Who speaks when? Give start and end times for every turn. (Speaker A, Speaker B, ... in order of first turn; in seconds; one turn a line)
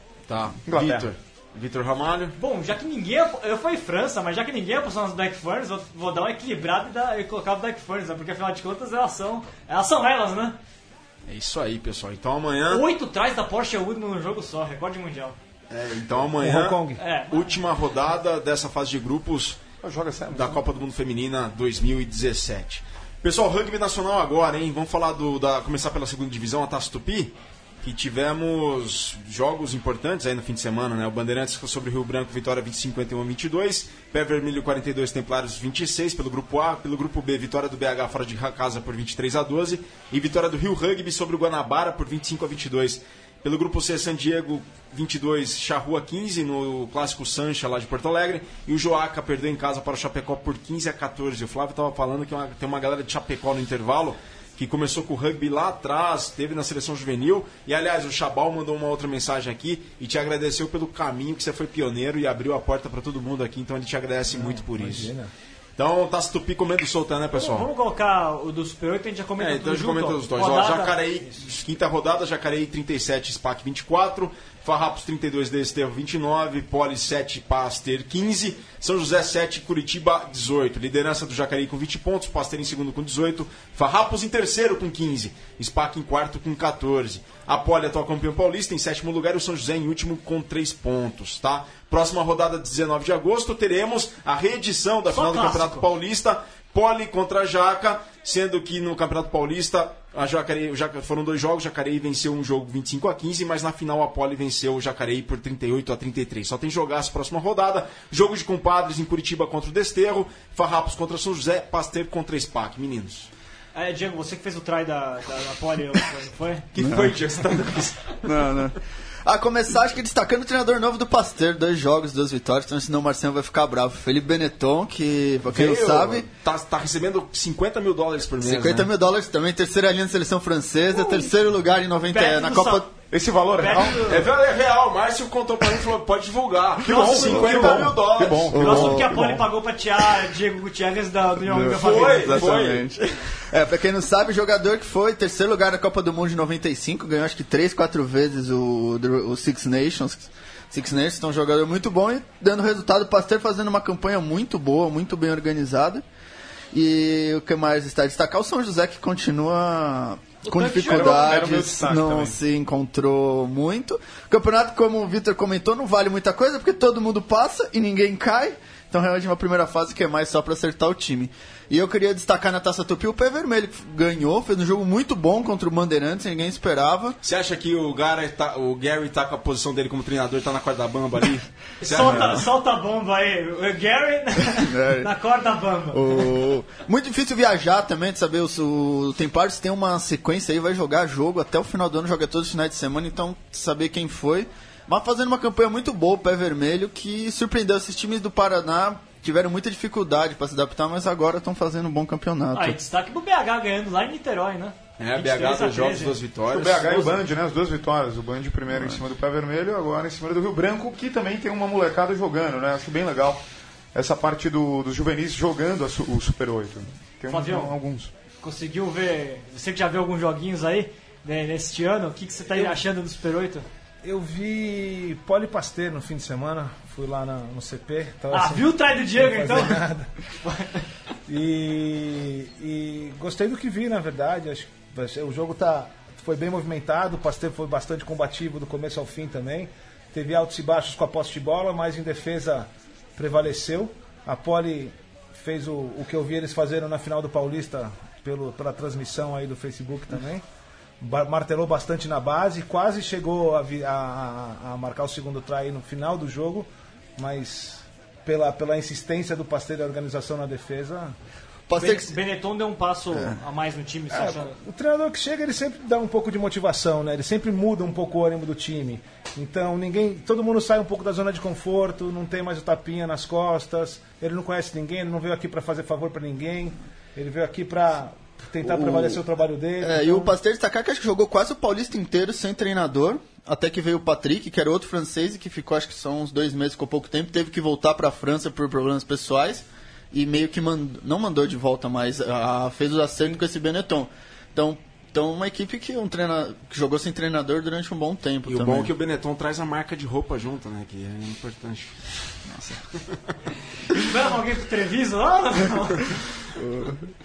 Speaker A: 0.3-2.4
Speaker B: 0.7-1.1
Speaker C: 2.4-10.6
Speaker A: 11.3-12.8
Speaker C: 12.7-15.4
Speaker A: 15.7-19.6
Speaker D: 16.3-17.0
Speaker C: 17.0-17.4
Speaker B: 19.8-20.6
Speaker A: 20.3-65.1
Speaker D: 64.3-65.3
Speaker A: 65.8-67.7
Speaker C: 67.3-71.5
Speaker A: 69.4-113.3
Speaker C: 95.1-95.9
Speaker C: 113.7-116.7
Speaker A: 116.7-118.3
Speaker E: 116.8-117.5
Speaker E: 118.2-126.3
Speaker A: 125.5-128.9
Speaker E: 128.4-132.9
Speaker C: 132.1-132.9
Speaker B: 133.1-134.3
Speaker C: 133.6-134.2
Speaker A: 134.1-138.9
Speaker B: 136.8-139.4
Speaker C: 136.8-137.8
Speaker E: 138.5-139.3
Speaker C: 138.6-142.6
Speaker E: 141.4-156.0
Speaker A: 141.7-142.9
Speaker E: 156.7-177.2
Speaker C: 160.4-161.6
Speaker B: 160.9-162.4
Speaker A: 177.2-182.4
Speaker C: 181.8-186.3
Speaker E: 182.0-182.3
Speaker E: 184.7-185.1
Speaker E: 185.9-202.8
Speaker C: 202.5-206.2
Speaker A: 205.0-207.2
Speaker B: 206.5-213.4
Speaker B: 213.9-218.1
Speaker C: 217.3-217.7
Speaker C: 218.4-223.7
Speaker D: 222.5-222.8
Speaker D: 224.0-230.1
Speaker C: 228.3-229.8
Speaker C: 230.4-230.9
Speaker D: 231.3-250.4
Speaker D: 251.0-261.1
Speaker E: 261.7-262.1
Speaker C: 261.8-264.6
Speaker D: 264.1-280.4
Speaker E: 278.6-279.2
Speaker E: 279.8-298.9
Speaker A: 298.5-302.1
Speaker E: 302.5-302.8
Speaker C: 303.9-306.1
Speaker E: 306.6-307.0